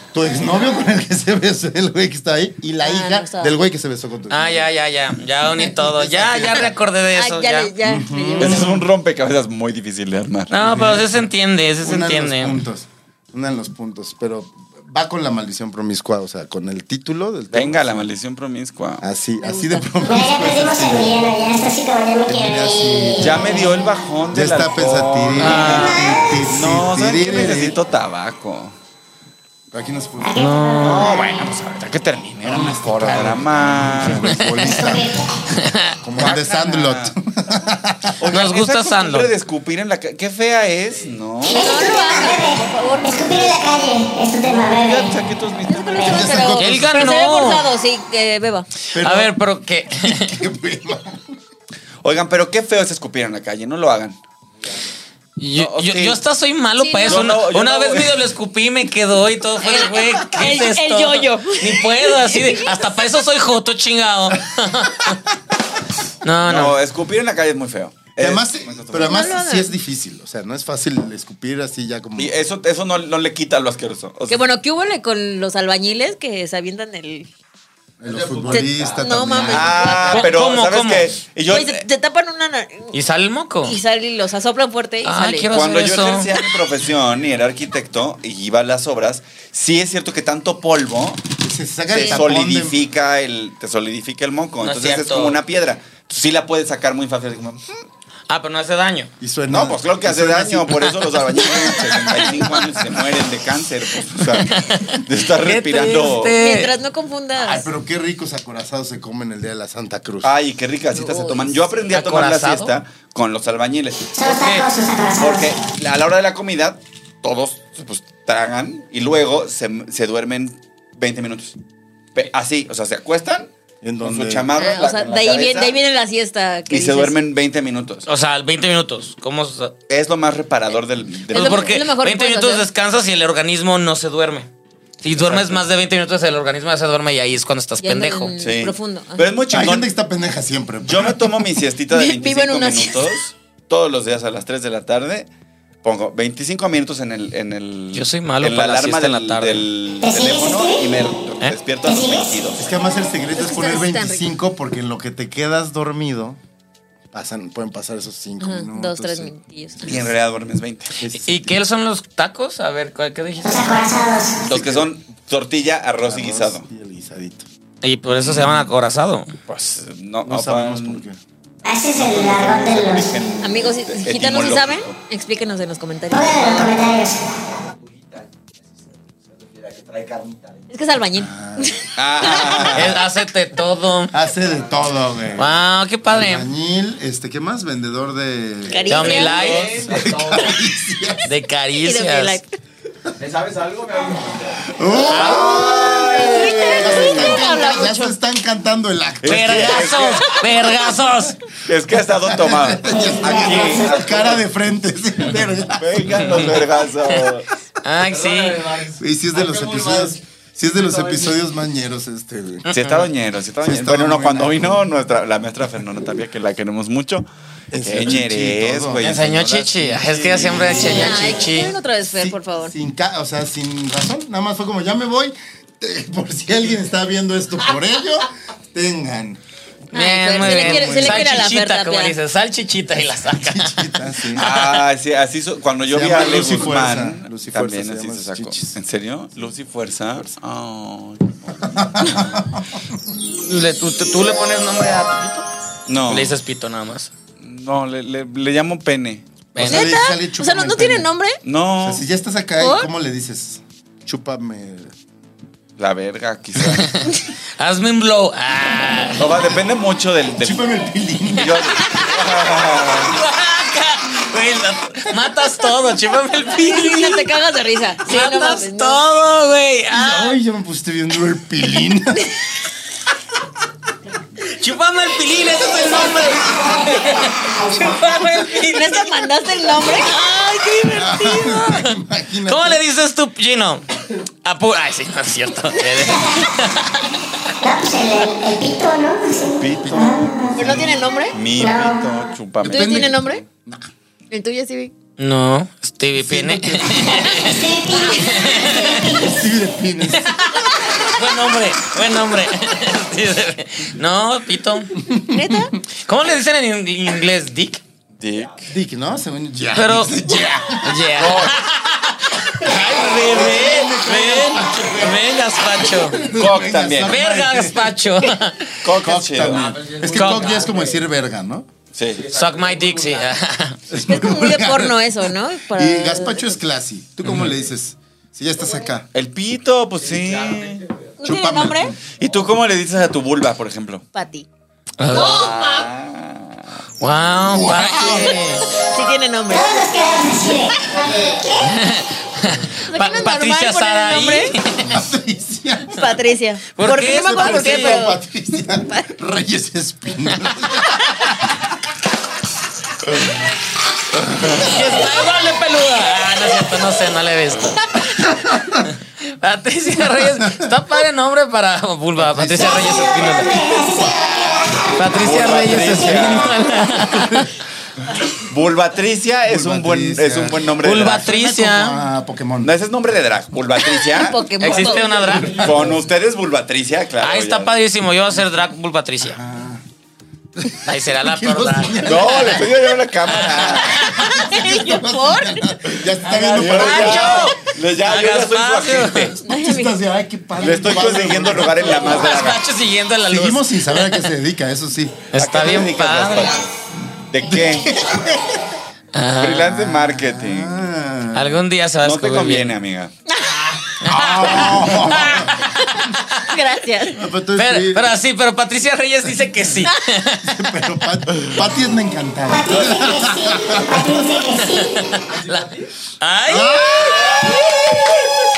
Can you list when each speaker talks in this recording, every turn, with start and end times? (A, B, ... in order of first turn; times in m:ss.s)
0:00.1-0:04.7 A
0:02.8-0:03.6 B
0:04.3-0:07.7 C
0:05.4-0:06.7 A
0:07.1-0:08.8 B
0:07.8-0:08.9 A
0:08.4-0:10.8 D
0:10.5-0:12.6 C
0:10.6-0:11.3 A
0:11.8-0:18.1 A
0:17.5-0:19.0 D
0:19.0-0:21.2 A
0:19.4-0:19.9 B
0:20.1-0:23.6 E
0:22.3-0:27.8 A
0:23.2-0:25.9 D
0:25.4-0:26.0 C
0:25.6-0:26.4 E
0:26.4-0:28.8 D
0:29.7-0:30.5 A
0:30.2-0:31.3 E
0:30.4-0:31.3 C
0:30.8-0:34.5 D
0:32.4-0:35.1 A
0:34.3-0:34.9 C
0:34.6-0:35.3 E
0:35.5-0:36.0 C
0:36.0-0:38.2 A
0:36.2-0:37.2 D
0:38.2-0:41.7 D
0:38.3-0:39.3 C
0:40.9-0:41.2 F
0:41.4-0:45.2 E
0:41.5-0:43.8 B
0:44.5-0:46.6 D
0:45.7-0:48.7 B
0:46.0-0:46.3 E
0:46.1-0:47.2 A
0:46.6-0:47.6 C
0:48.9-0:49.4 A
0:49.0-0:50.4 C
0:49.9-0:51.3 A
0:52.0-0:54.2 D
0:55.4-1:05.2 C
0:55.6-0:56.2 D
0:56.8-0:57.3 B
0:57.0-0:58.2 D
0:59.6-1:02.9 B
1:06.2-1:06.8 C
1:06.4-1:09.3 D
1:08.2-1:12.4 A
1:09.1-1:09.7 B
1:12.2-1:14.4 D
1:14.3-1:17.3 B
1:18.0-1:20.0 A
1:18.0-1:19.4 F
1:18.5-1:20.3 B
1:19.4-1:21.8 D
1:20.1-1:21.1 C
1:21.5-1:22.9 B
1:22.9-1:23.8 C
1:23.6-1:25.5 B
1:25.0-1:26.3 C
1:25.5-1:31.2 D
1:31.4-1:32.8 A
1:31.9-1:37.7 D
1:34.6-1:35.4 C
1:38.3-1:39.1 C
1:39.2-1:40.9 A
1:39.5-1:46.4 D
1:44.2-1:46.7 C
1:46.4-1:47.7 B
1:47.4-1:50.3 A
1:50.2-1:54.6 D
1:50.9-1:51.7 B
1:51.9-1:52.7 C
1:54.1-1:55.6 E
1:54.3-1:54.6 C
1:55.2-2:01.6 D
2:02.1-2:03.5 D
2:03.8-2:04.5 A
2:04.0-2:05.8 D
2:04.6-2:07.2 B
2:06.7-2:08.1 D
2:08.1-2:09.7 C
2:09.9-2:11.8 D
2:11.3-2:14.5 C
2:11.3-2:12.7 B
2:15.0-2:18.3 C
2:15.1-2:15.6 D
2:17.8-2:19.3 B
2:18.4-2:19.9 D
2:19.5-2:21.3 A
2:20.8-2:25.3 D
2:21.9-2:23.1 B
2:25.8-2:32.6 D
2:27.9-2:29.7 C
2:30.0-2:31.0 E
2:31.8-2:32.4 E
2:32.6-2:36.4 A
2:33.4-2:34.3 B
2:37.1-2:40.1 A
2:38.4-2:40.0 B
2:39.8-2:40.9 D
2:41.0-2:41.6 A
2:41.2-2:43.8 C
2:43.4-2:44.4 E
2:44.4-2:46.6 D
2:44.5-2:44.9 A
2:46.0-2:47.5 A
2:47.8-2:49.3 C
2:48.2-2:48.7 D
2:49.5-2:51.0 D
2:50.2-2:51.2 A
2:51.6-2:53.2 E
2:52.0-2:55.0 D
2:53.4-2:56.8 B
2:56.1-2:57.3 E
2:57.4-3:00.8 F
3:00.7-3:02.9 B
3:01.1-3:01.8 A
3:02.0-3:03.0 D
3:02.7-3:04.1 C
3:04.1-3:05.5 A
3:04.4-3:04.9 F
3:05.4-3:06.5 C
3:06.1-3:11.3 A
3:08.7-3:09.7 B
3:08.9-3:09.9 C
3:09.1-3:10.6 F
3:11.3-3:12.4 C
3:11.8-3:12.5 B
3:13.2-3:14.8 F
3:14.6-3:20.1 A
3:15.1-3:17.4 D
3:16.1-3:18.2 B
3:19.2-3:20.3 D
3:19.2-3:21.4 C
3:21.7-3:24.4 D
3:22.2-3:26.6 A
3:22.9-3:24.1 E
3:25.8-3:27.5 D
3:26.2-3:27.3 C
3:27.8-3:28.7 C
3:28.0-3:31.4 F
3:28.9-3:32.7 A
3:32.7-3:33.1 C
3:32.7-3:37.3 D
3:33.6-3:34.8 A
3:37.7-3:39.1 A
3:37.8-3:41.3 D
3:39.0-3:41.7 C
3:40.5-3:41.4 A
3:40.7-3:42.7 B
3:42.0-3:49.4 A
3:49.9-3:52.2 B
3:49.9-3:54.8 C
3:50.4-3:51.5 A
3:53.4-3:54.5 A
3:54.3-4:02.2 D
3:55.9-3:58.8 A
4:01.7-4:02.8 A
4:03.4-4:05.5 C
4:05.9-4:06.4 D
4:06.1-4:07.1 C
4:07.4-4:09.2 D
4:09.6-4:09.9 C
4:09.6-4:11.1 A
4:09.6-4:11.4 B
4:11.4-4:12.0 D
4:11.8-4:14.9 A
4:12.6-4:12.9 B
4:15.8-4:17.0 D
4:16.6-4:19.3 C
4:19.2-4:20.7 D
4:20.4-4:21.7 A
4:21.4-4:23.2 D
4:21.8-4:22.1 C
4:22.9-4:27.3 C
4:26.5-4:29.0 B
4:28.1-4:30.4 C
4:29.9-4:32.3 A
4:34.5-4:39.1 C
4:35.6-4:38.1 E
4:37.8-4:41.2 B
4:40.3-4:43.9 C
4:40.9-4:42.8 A
4:44.4-4:47.1 C
4:45.9-4:46.6 E
4:47.6-4:50.8 E
4:49.6-4:53.3 D
4:49.8-4:51.0 A
4:50.6-4:51.4 B
4:51.5-4:52.3 E
4:52.6-4:53.9 A
4:52.6-4:53.4 B
4:54.3-4:54.9 B
4:55.2-4:59.2 C
4:56.2-4:57.3 A
4:57.1-4:59.4 E
4:58.7-5:00.6 A
5:00.1-5:05.0 C
5:05.0-5:05.7 A
5:05.3-5:05.7 B
5:06.0-5:07.8 C
5:08.2-5:08.7 D
5:08.7-5:11.3 A
5:09.8-5:10.2 C
5:10.8-5:16.2 C
5:11.2-5:11.6 D
5:12.7-5:18.0 A
5:16.2-5:17.2 D
5:17.1-5:18.8 C
5:18.8-5:19.7 D
5:18.9-5:21.7 A
5:19.5-5:21.1 F
5:20.1-5:20.7 C
5:21.9-5:22.2 D
5:22.1-5:23.4 F
5:22.3-5:23.8 C
5:23.9-5:29.1 A
5:24.0-5:26.6 B
5:27.2-5:27.5 C
5:29.1-5:30.9 D
5:30.0-5:31.2 F
5:31.2-5:32.0 B
5:31.2-5:32.0 A
5:32.1-5:34.0 D
5:34.1-5:34.5 B
5:35.0-5:35.5 C
5:35.1-5:36.8 D
5:37.0-5:38.6 C
5:37.4-5:38.4 A
5:37.9-5:40.2 B
5:39.5-5:41.8 E
5:41.6-5:44.9 C
5:42.8-5:44.6 B
5:44.8-5:46.1 A
5:45.9-5:49.1 B
5:46.8-5:48.0 C
5:46.8-5:51.5 A
5:54.4-5:54.6 D
5:54.4-5:58.1 C
5:58.3-5:58.9 A
5:58.8-6:03.6 C
6:00.1-6:00.8 A
6:02.2-6:03.4 A
6:02.6-6:06.3 E
6:05.0-6:07.5 C
6:05.2-6:06.6 D
6:07.0-6:07.5 A
6:08.5-6:11.3 D
6:09.5-6:12.7 A
6:10.8-6:12.0 C
6:12.6-6:14.9 D
6:13.9-6:15.5 B
6:14.6-6:15.8 C
6:15.4-6:17.8 D
6:17.2-6:19.4 C
6:19.2-6:19.8 A
6:20.6-6:27.5 A
6:20.8-6:22.5 C
6:22.0-6:24.0 D
6:23.3-6:24.4 C
6:24.1-6:25.6 B
6:26.2-6:29.4 C
6:26.5-6:29.4 D
6:29.4-6:32.4 A
6:29.5-6:30.0 B
6:30.6-6:32.6 D
6:31.9-6:34.3 C
6:33.3-6:35.3 A
6:35.3-6:36.6 C
6:35.4-6:36.7 D
6:37.3-6:38.0 D
6:37.4-6:38.6 A
6:39.1-6:39.7 C
6:39.4-6:40.8 D
6:39.7-6:41.6 A
6:41.3-6:42.8 C
6:42.0-6:43.1 D
6:43.3-6:44.0 B
6:44.0-6:45.7 A
6:44.0-6:46.5 C
6:46.4-6:47.2 B
6:47.1-6:48.1 A
6:47.6-6:50.5 C
6:50.4-6:54.4 A
6:52.5-6:55.2 E
6:54.7-6:55.7 C
6:55.3-6:55.9 F
6:56.2-6:58.1 C
6:56.5-6:57.5 A